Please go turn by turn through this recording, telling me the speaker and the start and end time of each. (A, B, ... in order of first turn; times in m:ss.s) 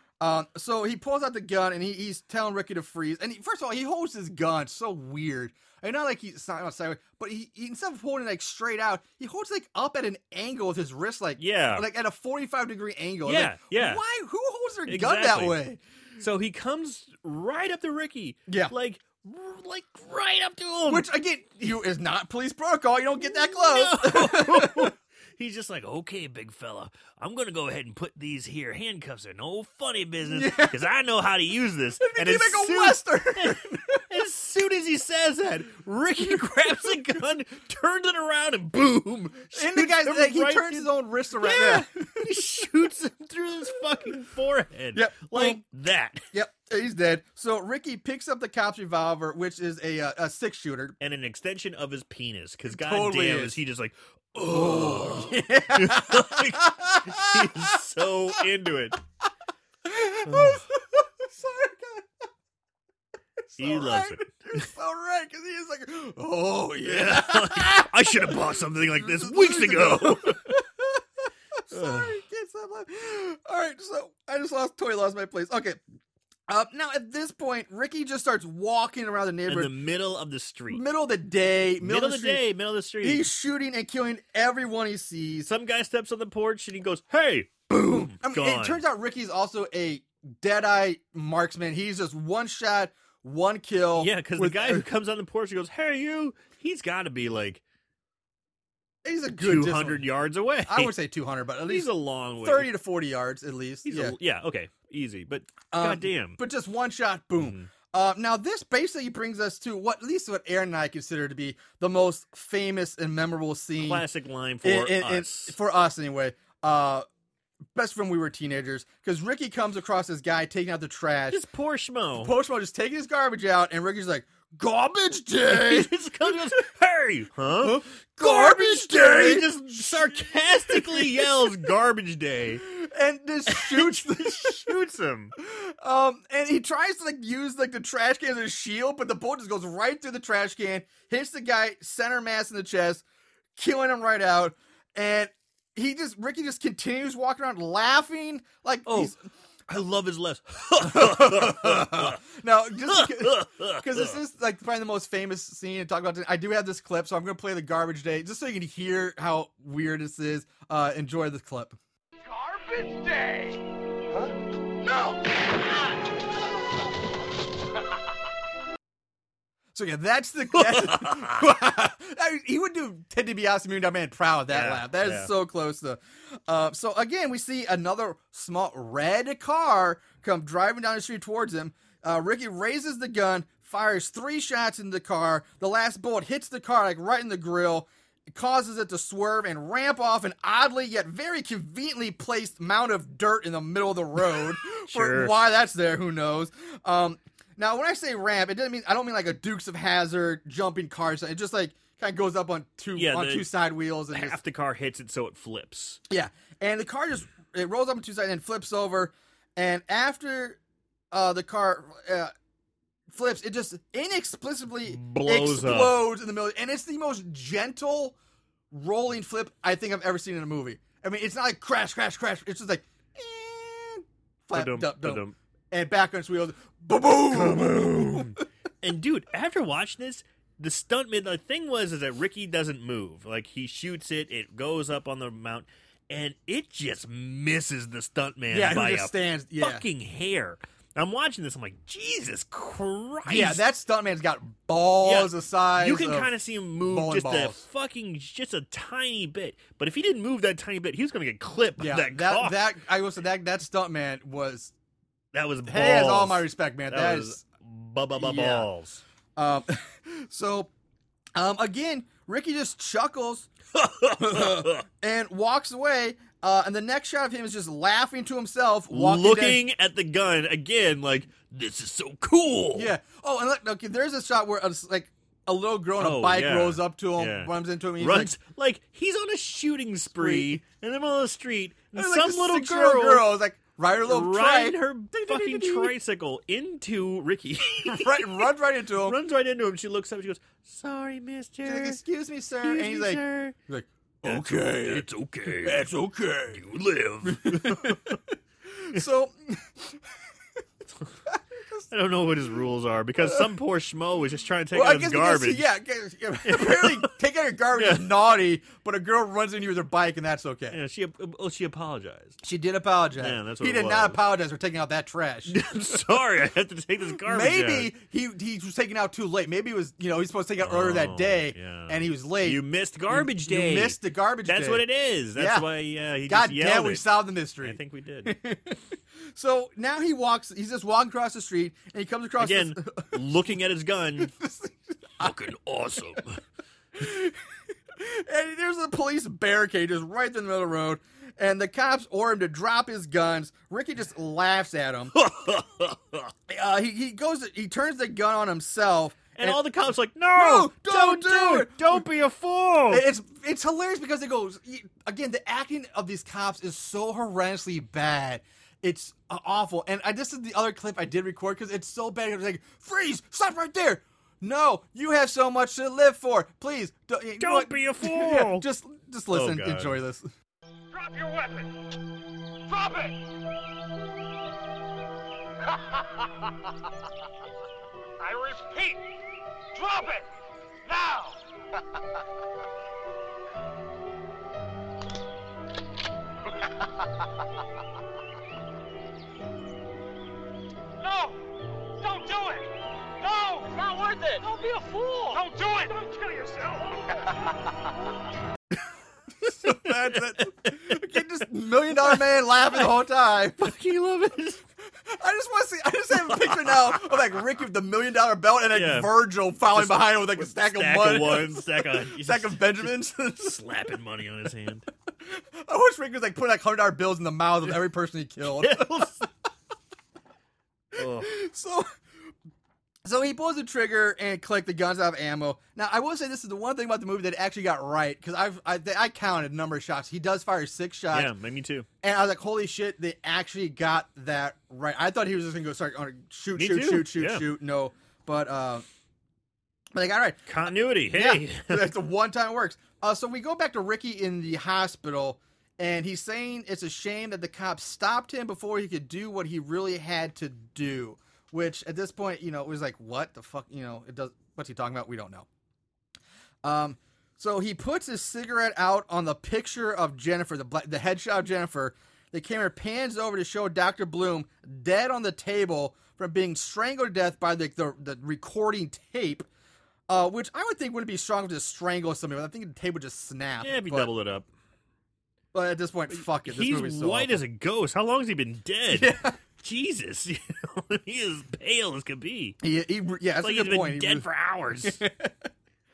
0:00.2-0:15.8 A
0:11.4-0:11.9 B
0:13.2-0:14.0 B
0:14.9-0:15.6 B
0:16.2-0:21.1 B
0:18.5-0:18.7 A
0:20.9-0:24.9 A
0:23.6-0:40.9 B
0:30.3-0:30.8 A
0:32.0-0:34.0 A
0:36.2-0:37.0 A
0:39.5-0:42.3 A
0:41.4-0:46.2 B
0:44.9-0:45.6 A
0:46.3-0:51.0 A
0:51.0-0:59.0 B
0:52.7-0:53.6 A
0:54.5-0:57.8 A
0:59.8-1:02.1 A
1:00.3-1:00.6 B
1:03.4-1:15.8 A
1:03.6-1:04.6 B
1:06.8-1:10.5 B
1:11.7-1:12.2 B
1:16.5-1:19.7 A
1:19.5-1:20.8 B
1:20.7-1:22.4 A
1:21.8-1:23.3 B
1:23.0-1:25.5 A
1:25.5-1:28.8 B
1:27.8-1:34.9 A
1:34.0-1:37.6 B
1:39.0-1:40.0 A
1:39.4-1:41.0 B
1:40.7-1:44.2 A
1:41.7-1:42.7 B
1:43.8-1:46.4 B
1:45.7-1:54.0 A
1:47.4-1:47.7 B
1:53.8-1:55.6 B
1:54.6-1:57.0 A
1:57.8-2:01.4 A
2:01.3-2:02.3 B
2:02.2-2:06.6 A
2:05.5-2:12.6 B
2:07.6-2:11.6 A
2:12.7-2:14.8 A
2:13.5-2:15.3 B
2:15.4-2:23.0 A
2:23.6-2:29.2 A
2:28.9-2:29.1 B
2:29.7-2:32.2 B
2:30.8-2:41.8 A
2:32.9-2:34.2 B
2:42.2-2:43.7 C
2:44.8-2:45.7 C
2:49.8-3:24.4 A
2:50.6-2:51.4 B
2:54.5-2:55.3 B
3:14.8-3:15.3 B
3:23.0-3:23.5 B
3:24.1-3:26.0 B
3:26.1-3:30.6 A
3:31.1-3:32.3 A
3:33.1-3:38.2 A
3:34.9-3:36.0 B
3:38.7-3:48.4 A
3:44.5-3:45.4 B
3:47.3-4:03.6 B
3:58.5-3:59.8 A
4:03.3-4:06.3 A
4:05.0-4:12.6 B
4:06.8-4:07.6 A
4:11.8-4:14.7 A
4:15.3-4:19.0 B
4:15.7-4:17.4 A
4:18.2-4:18.7 A
4:19.4-4:20.7 A
4:21.4-4:23.5 A
4:23.8-4:24.8 B
4:24.2-4:29.6 A
4:28.9-4:32.9 B
4:32.7-4:38.3 A
4:36.0-4:43.3 B
4:40.1-4:40.6 A
4:42.0-4:45.9 A
4:44.0-4:48.5 B
4:47.8-4:49.2 A
4:49.0-4:52.0 B
4:51.6-4:56.6 A
4:52.6-4:53.6 B
4:54.2-4:55.8 B
4:56.5-4:58.2 B
4:57.2-4:58.2 A
4:58.7-5:00.0 A
5:01.3-5:01.9 A
5:01.9-5:05.7 B
5:03.2-5:03.5 A
5:04.7-5:10.8 A
5:06.5-5:07.1 B
5:07.7-5:08.1 B
5:10.7-5:12.4 B
5:12.4-5:15.6 A
5:13.2-5:14.2 B
5:15.5-5:17.9 B
5:17.3-5:24.8 A
5:20.6-5:27.0 B
5:25.4-5:25.7 A
5:26.2-5:28.8 A
5:27.6-5:28.4 B
5:29.3-5:33.3 A
5:32.4-5:34.3 B
5:34.2-5:35.3 A
5:35.2-5:36.4 B
5:37.0-5:37.4 A
5:38.0-5:45.2 A
5:45.1-5:46.3 B
5:46.5-5:49.6 A
5:49.4-5:53.0 B
5:50.3-5:52.1 A
5:52.9-6:10.3 A
6:07.4-6:08.7 B
6:09.3-6:10.0 B
6:10.9-6:11.7 C
6:12.7-6:13.2 C
6:18.2-6:19.0 C
6:19.7-6:20.3 C
6:20.9-6:21.4 C
6:31.0-6:31.4 C
6:32.0-6:37.3 C
6:39.4-6:43.7 A
6:39.4-6:41.0 B
6:43.6-6:44.6 B
6:45.0-6:53.6 A
6:46.3-6:47.2 B
6:48.7-6:49.1 B
6:49.7-6:54.9 B
6:55.3-6:59.1 A
6:58.6-6:59.3 B
7:00.9-7:01.4 B
7:01.0-7:01.9 A
7:03.0-7:11.3 A
7:11.1-7:11.9 B
7:12.0-7:18.9 A
7:16.6-7:17.4 B
7:20.0-7:20.5 A
7:20.5-7:21.9 B
7:21.1-7:35.5 A
7:36.6-7:49.5 A
7:50.1-7:54.1 A
7:53.6-7:54.5 B
7:55.5-7:57.4 A
7:56.3-8:02.6 B
7:58.9-7:59.4 A
8:02.6-8:04.3 A
8:03.4-8:05.0 B
8:04.8-8:05.5 A